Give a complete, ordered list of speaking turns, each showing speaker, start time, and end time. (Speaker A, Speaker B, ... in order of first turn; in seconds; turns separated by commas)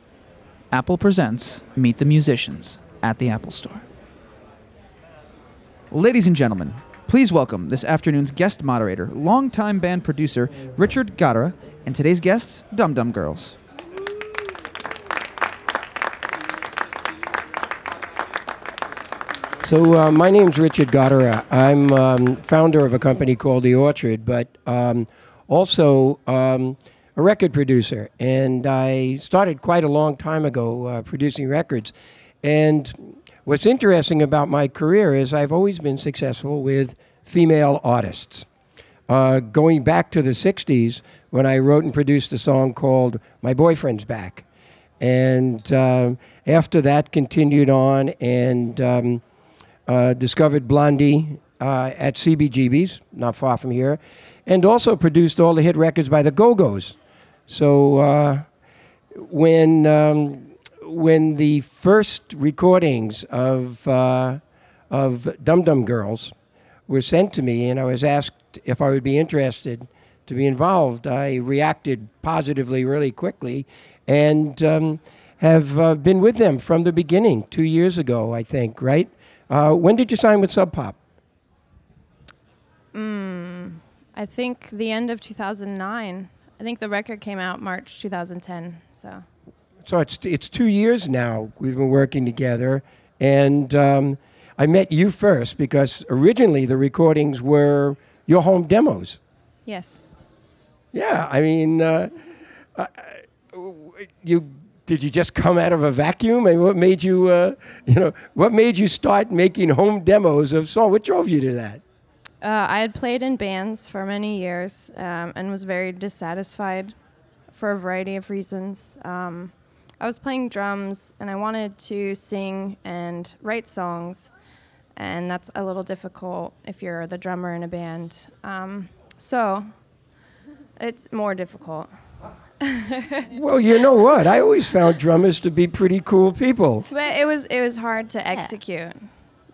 Speaker A: 0.7-3.9, Speaker A: 5.9-13.6, Speaker B: 19.6-38.5, Speaker B: 39.1-44.4, Speaker B: 45.0-49.2, Speaker B: 49.9-57.0, Speaker B: 57.5-58.4, Speaker B: 59.1-66.3, Speaker B: 66.9-81.0, Speaker C: 82.9-89.2, Speaker B: 89.8-99.2, Speaker C: 99.6-100.0, Speaker B: 100.9-102.1, Speaker B: 102.8-111.8, Speaker C: 112.4-117.0, Speaker C: 117.5-124.3, Speaker C: 124.9-129.8, Speaker C: 130.8-131.9, Speaker C: 132.6-133.4, Speaker B: 133.3-136.8, Speaker C: 136.9-139.1